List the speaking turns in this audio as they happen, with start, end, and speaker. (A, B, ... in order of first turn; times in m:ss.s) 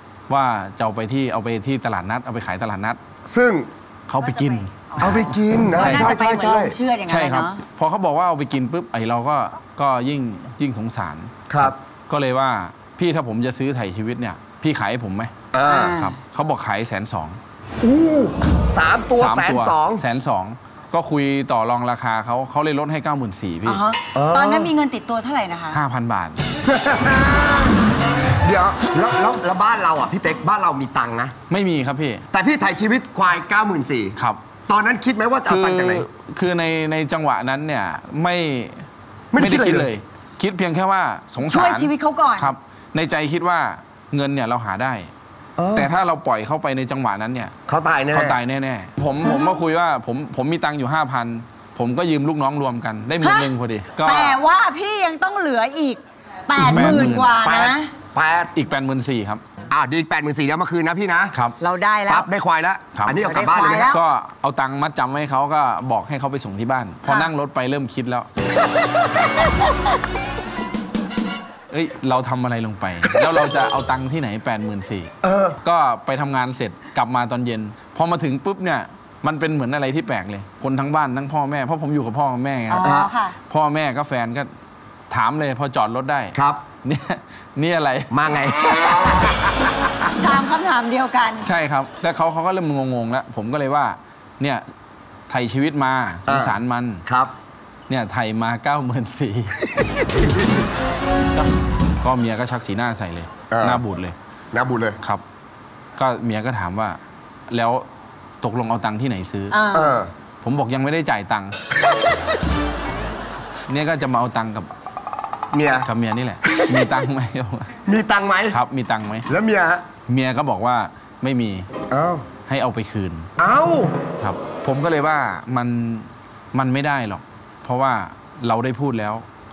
0:00.3-0:03.0 A
0:03.3-0:03.7 B
0:04.1-0:06.2 A
0:04.2-0:07.6 C
0:05.0-0:06.8 B
0:07.1-0:15.3 A
0:11.5-0:11.8 B
0:15.5-0:16.0 B
0:15.6-0:16.2 C
0:16.0-0:17.4 A
0:17.8-0:20.0 B
0:19.1-0:23.8 A
0:23.6-0:25.8 C
0:24.1-0:24.7 B
0:25.7-0:26.4 A
0:26.6-0:27.8 B
0:28.4-0:31.3 B
0:31.5-0:32.2 A
0:32.3-0:36.0 B
0:35.4-0:45.1 A
0:39.3-0:39.9 B
0:41.4-0:42.5 C
0:45.6-0:45.9 B
0:45.7-0:47.5 A
0:47.7-0:48.4 B
0:48.1-0:54.4 A
0:53.2-0:53.5 C
0:54.0-0:57.9 C
0:56.6-0:57.3 A
0:56.6-0:58.5 B
0:58.5-0:59.4 A
0:59.7-1:01.3 B
1:01.6-1:02.3 C
1:02.1-1:03.9 B
1:02.9-1:03.2 A
1:03.2-1:04.0 C
1:03.7-1:08.3 A
1:07.0-1:07.3 C
1:11.7-1:22.9 A
1:15.2-1:15.6 B
1:22.7-1:23.4 C
1:22.8-1:23.1 B
1:23.5-1:24.5 A
1:25.1-1:28.1 A
1:26.3-1:26.6 B
1:28.1-1:29.1 B
1:30.2-1:31.5 C
1:31.4-1:34.6 A
1:35.3-1:37.0 A
1:36.3-1:37.3 B
1:37.9-1:39.8 A
1:42.0-1:44.2 A
1:43.5-1:43.8 B
1:44.5-1:45.0 B
1:46.0-1:47.9 A
1:48.4-1:49.6 A
1:49.5-1:50.0 C
1:49.7-1:50.1 B
1:50.4-1:51.6 A
1:53.7-1:54.7 A
1:55.5-1:55.9 B
1:55.8-1:57.7 A
1:56.5-1:56.9 B
1:57.8-1:58.6 B
1:58.5-1:59.3 A
1:59.3-1:59.8 B
2:00.1-2:01.7 A
2:01.9-2:02.2 B
2:02.4-2:03.3 A
2:03.4-2:03.9 B
2:04.2-2:09.2 A